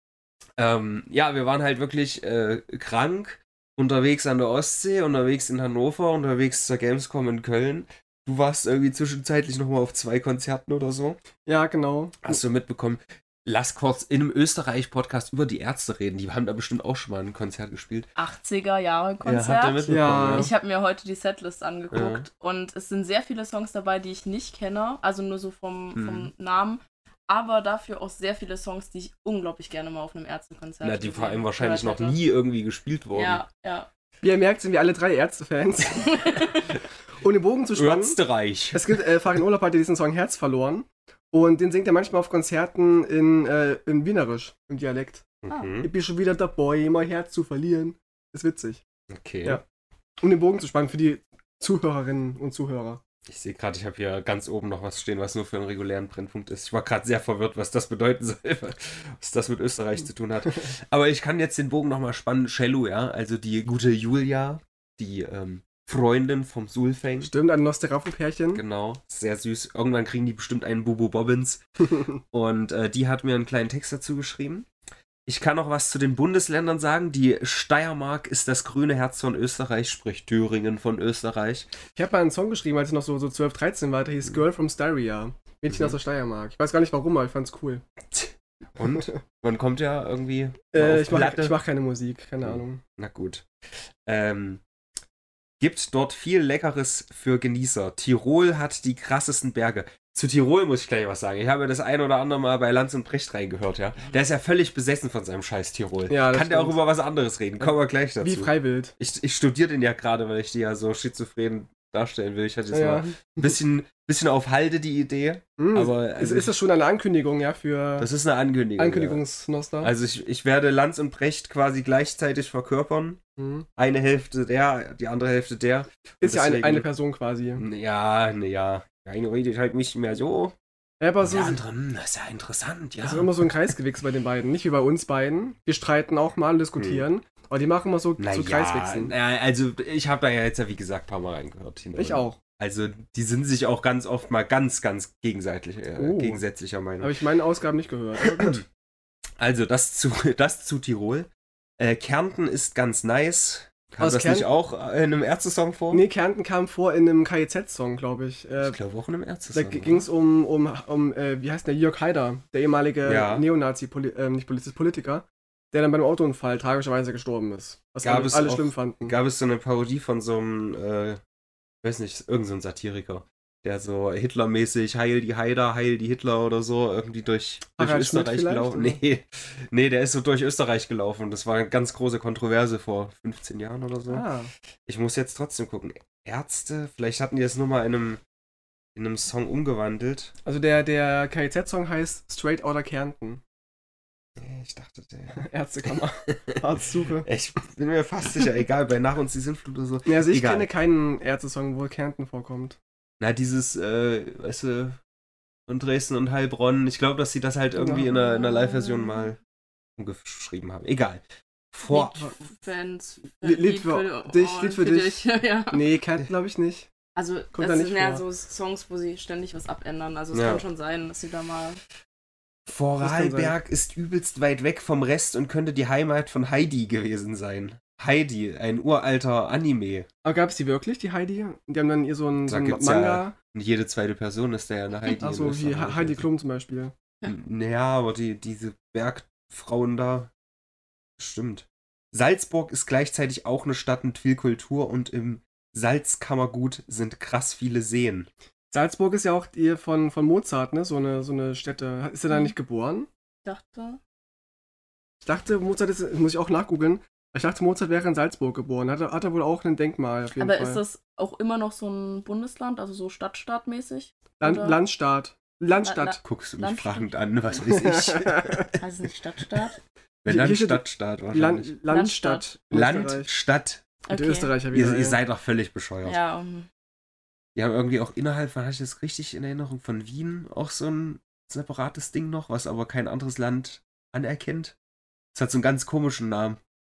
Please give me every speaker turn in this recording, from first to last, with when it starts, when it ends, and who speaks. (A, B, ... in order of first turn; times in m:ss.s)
0:00.6-0:11.2 A
0:11.4-0:12.4 B
0:12.2-0:18.1 A
0:18.2-0:32.2 C
0:19.2-0:20.5 A
0:19.9-0:20.5 B
0:21.9-0:22.2 A
0:25.9-0:26.3 A
0:30.8-0:33.4 A
0:33.1-0:33.9 C
0:34.2-0:36.1 B
0:35.9-0:36.7 C
0:37.2-0:38.2 B
0:37.8-0:38.8 A
0:38.7-0:45.3 B
0:45.4-0:45.9 A
0:45.8-0:48.8 B
0:49.1-0:49.6 A
0:50.2-0:53.0 B
0:53.3-1:07.3 A
1:07.2-1:08.6 B
1:08.5-1:11.6 A
1:12.3-1:14.7 A
1:15.2-1:21.7 A
1:21.9-1:27.8 B
1:25.7-1:26.0 A
1:28.1-1:31.6 A
1:28.9-1:29.2 B
1:30.7-1:32.8 B
1:32.4-1:33.5 A
1:34.0-1:34.6 A
1:35.6-1:56.5 A
1:46.1-1:46.8 B
1:47.6-1:48.9 B
1:52.7-1:53.6 B
1:55.6-1:58.1 B
1:58.0-1:59.2 A
1:58.8-1:59.9 B
1:59.8-2:03.2 A
2:03.4-2:03.7 B
2:03.8-2:06.8 A
2:06.2-2:07.6 B
2:07.6-2:10.5 A
2:11.0-2:11.6 B
2:11.2-2:13.4 A
2:13.0-2:19.1 B
2:16.8-2:17.0 A
2:18.2-2:27.1 A
2:21.9-2:22.4 B
2:26.0-2:26.4 B
2:27.0-2:28.6 B
2:28.2-2:28.6 A
2:29.4-2:31.3 A
2:31.8-2:36.0 A
2:34.0-2:34.5 B
2:35.9-2:38.8 B
2:38.6-2:40.0 A
2:39.5-2:49.1 B
2:43.0-2:43.5 A
2:48.0-2:51.2 A
2:51.8-3:04.2 A
2:57.7-2:59.0 B
3:04.1-3:04.5 B
3:04.8-3:08.2 A
3:08.9-3:10.3 A
3:10.4-3:13.4 B
3:14.4-3:16.6 A
3:15.3-3:17.3 B
3:17.2-3:20.7 A
3:20.0-3:22.8 B
3:23.2-3:25.0 A
3:25.7-3:29.4 A
3:27.8-3:28.1 B
3:28.0-3:29.3 C
3:30.0-3:32.2 A
3:31.9-3:35.9 C
3:33.4-3:36.9 B
3:37.2-3:41.8 C
3:37.5-3:38.2 B
3:40.3-3:40.6 A
3:42.7-3:50.1 A
3:43.0-3:43.6 B
3:50.2-3:53.3 B
3:52.5-3:56.3 A
3:55.2-3:56.9 B
3:57.2-4:00.3 A
4:01.2-4:08.3 A
4:08.7-4:13.1 B
4:13.4-4:14.0 C
4:15.2-4:20.8 B
4:20.4-4:24.8 C
4:24.4-4:26.2 B
4:25.8-4:27.1 C
4:26.2-4:28.7 A
4:27.8-4:28.7 B
4:28.8-4:29.8 C
4:30.2-4:31.7 A
4:30.3-4:33.3 B
4:31.9-4:32.5 C
4:32.7-4:33.8 A
4:34.1-4:34.6 C
4:34.1-4:35.2 B
4:34.7-4:36.2 A
4:36.0-4:36.7 C
4:37.5-4:44.7 A
4:45.3-4:46.6 A